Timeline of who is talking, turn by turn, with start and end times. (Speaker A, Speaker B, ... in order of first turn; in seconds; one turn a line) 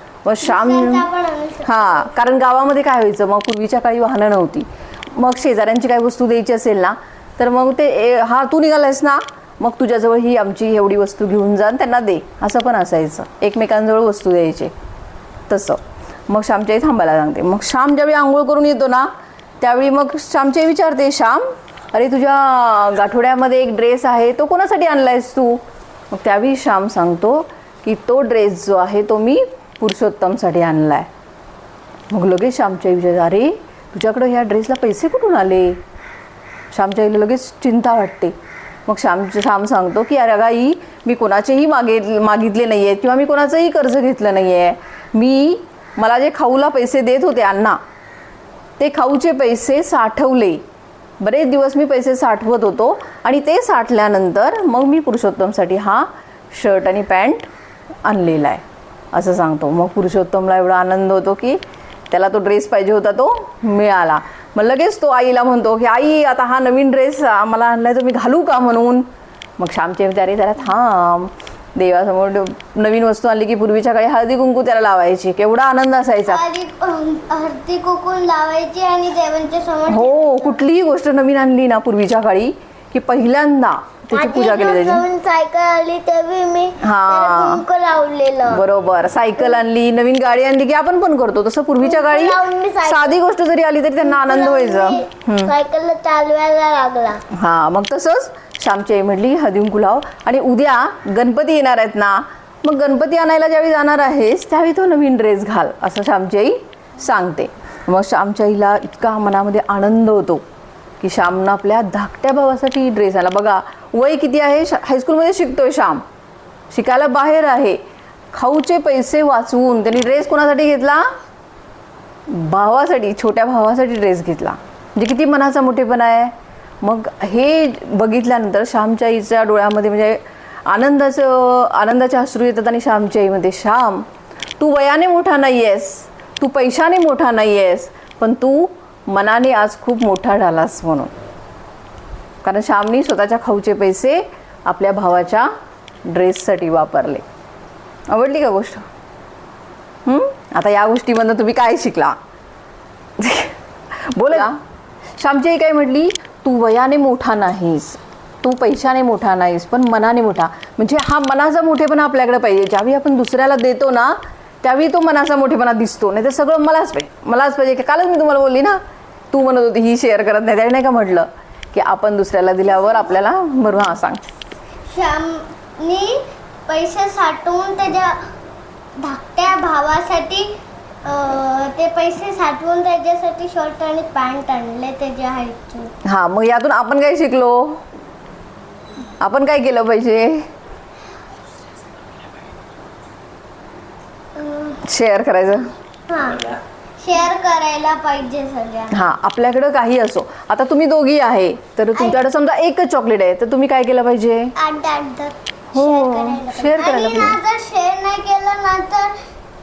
Speaker A: 0.2-1.1
Speaker B: 0.4-2.1
Speaker A: 1.6-14.7
Speaker A: 15.5-31.1
Speaker A: 32.1-35.8
Speaker A: 36.7-38.4
Speaker A: 38.9-47.8
Speaker A: 48.8-50.6
Speaker A: 51.2-57.5
Speaker A: 58.1-61.6
Speaker A: 62.1-69.1
Speaker A: 69.6-76.4
Speaker B: 76.3-80.6
Speaker A: 79.9-85.0
Speaker B: 84.1-88.6
Speaker A: 86.8-87.6
Speaker A: 88.5-95.5
Speaker B: 91.8-93.2
Speaker B: 94.0-97.2
Speaker A: 97.3-110.4
Speaker A: 111.0-116.0
Speaker A: 116.7-117.8
Speaker A: 118.3-121.0
Speaker A: 122.3-134.1
Speaker A: 134.6-141.1
Speaker A: 142.4-145.5
Speaker A: 146.1-147.2
Speaker A: 148.1-148.8
Speaker A: 150.1-152.2
Speaker A: 153.2-153.5
Speaker A: 154.1-154.5
Speaker A: 155.2-168.8
Speaker A: 169.3-174.2
Speaker B: 174.8-178.2
Speaker B: 179.0-180.5
Speaker B: 181.0-185.9
Speaker A: 186.0-187.8
Speaker A: 189.2-190.4
Speaker B: 194.4-194.8
Speaker A: 194.8-195.7
Speaker B: 196.1-199.1
Speaker A: 198.9-204.5
Speaker B: 201.9-202.2
Speaker B: 204.6-209.2
Speaker A: 205.7-207.4